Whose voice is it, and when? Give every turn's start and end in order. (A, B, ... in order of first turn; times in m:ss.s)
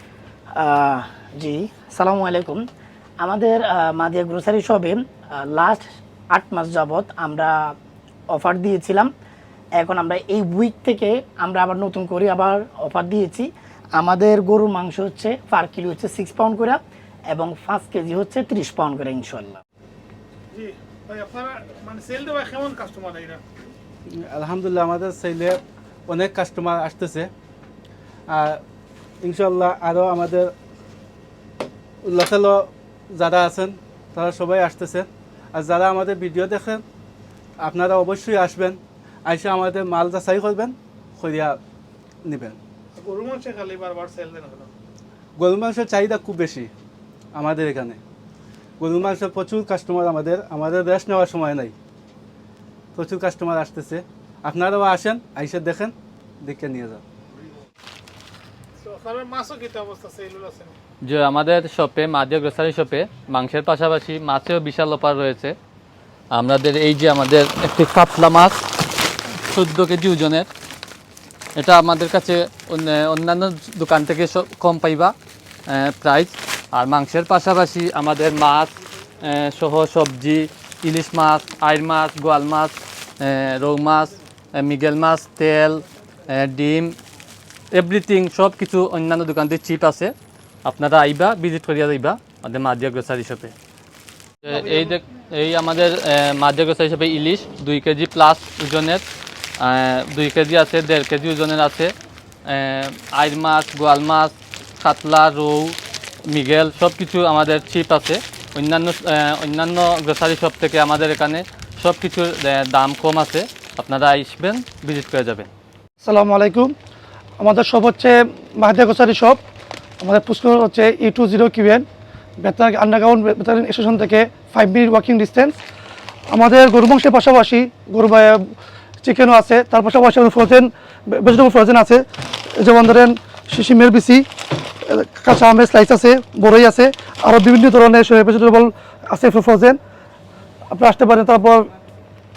0:00.6-0:02.6 A
0:03.2-0:07.8 A
0:08.3-0:09.1 A
0:09.8-0:19.6 A
0:20.5-0:23.4 B
0:24.3-0:27.3 C
0:28.3-0:28.6 C
0:29.2-0:30.5 C
0:32.0-0:36.8 C
0:37.6-0:41.6 C
0:42.3-0:42.6 C
0:43.0-0:44.7 B
0:45.4-0:46.7 C
0:47.4-0:48.0 C
0:48.8-0:51.7 C
0:53.0-0:57.0 C
0:58.8-1:00.7 B
1:01.0-1:05.6 D
1:06.3-1:08.6 D
1:09.5-1:10.5 D
1:11.6-1:15.2 D
1:15.7-1:27.0 D
1:27.7-1:30.1 D
1:30.6-1:33.5 D
1:34.4-1:39.0 D
1:39.6-1:41.9 D
1:42.4-1:55.5 D
1:56.0-1:56.7 E
1:57.4-1:59.4 E
2:00.0-2:01.8 E
2:02.4-2:05.6 E
2:06.3-2:12.0 E
2:12.6-2:14.3 E
2:14.9-2:19.8 E
2:20.7-2:21.7 E